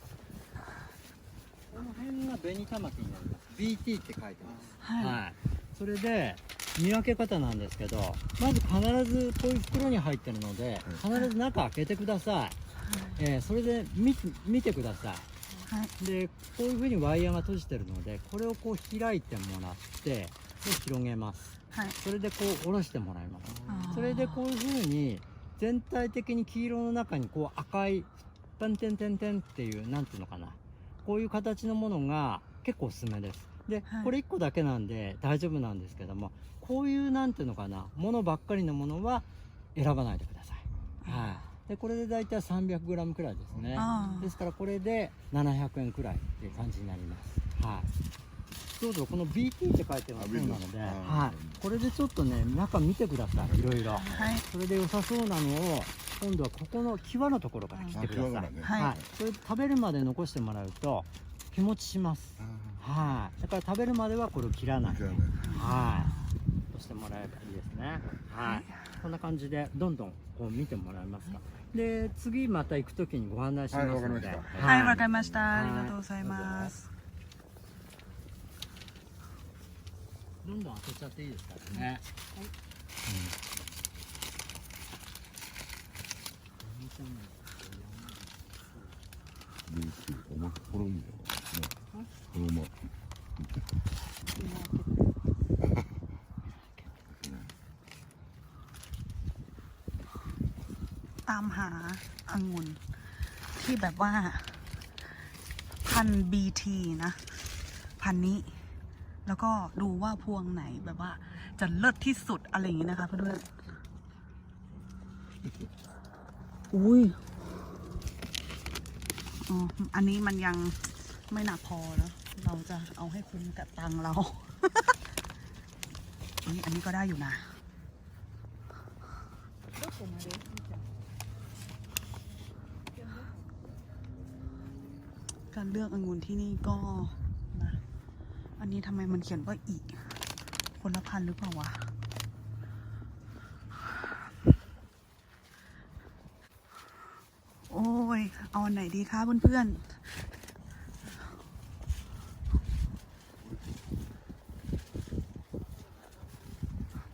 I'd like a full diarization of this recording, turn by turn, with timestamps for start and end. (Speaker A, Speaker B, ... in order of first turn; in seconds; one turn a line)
Speaker A: 1.7-12.6
Speaker B: 4.8-5.2
Speaker B: 12.8-13.2
Speaker A: 13.2-15.3
Speaker B: 15.7-15.9
Speaker A: 16.0-47.9
Speaker B: 21.7-22.0
Speaker B: 23.7-24.4
Speaker B: 33.9-34.1
Speaker B: 41.0-41.3
Speaker B: 43.7-44.3
Speaker A: 48.7-66.1
Speaker C: 50.4-51.4
Speaker B: 54.0-54.4
Speaker C: 58.0-58.7
Speaker B: 58.6-58.9
Speaker B: 65.4-66.3
Speaker A: 66.7-76.7
Speaker B: 68.4-68.8
Speaker C: 73.9-74.7
Speaker B: 74.6-76.9
Speaker A: 80.4-82.1
Speaker A: 83.0-83.5
Speaker A: 86.6-88.3
Speaker C: 89.7-91.6
Speaker C: 92.4-92.7
Speaker B: 94.3-95.1
Speaker B: 101.2-102.8
Speaker B: 103.5-104.8
Speaker B: 105.8-107.4
Speaker B: 108.0-108.5
Speaker B: 109.2-113.5
Speaker B: 116.7-117.2
Speaker B: 119.4-125.0
Speaker B: 126.4-127.5
Speaker B: 130.0-130.4
Speaker B: 135.5-137.8
Speaker B: 138.6-140.1
Speaker B: 140.8-141.9
Speaker B: 147.7-150.0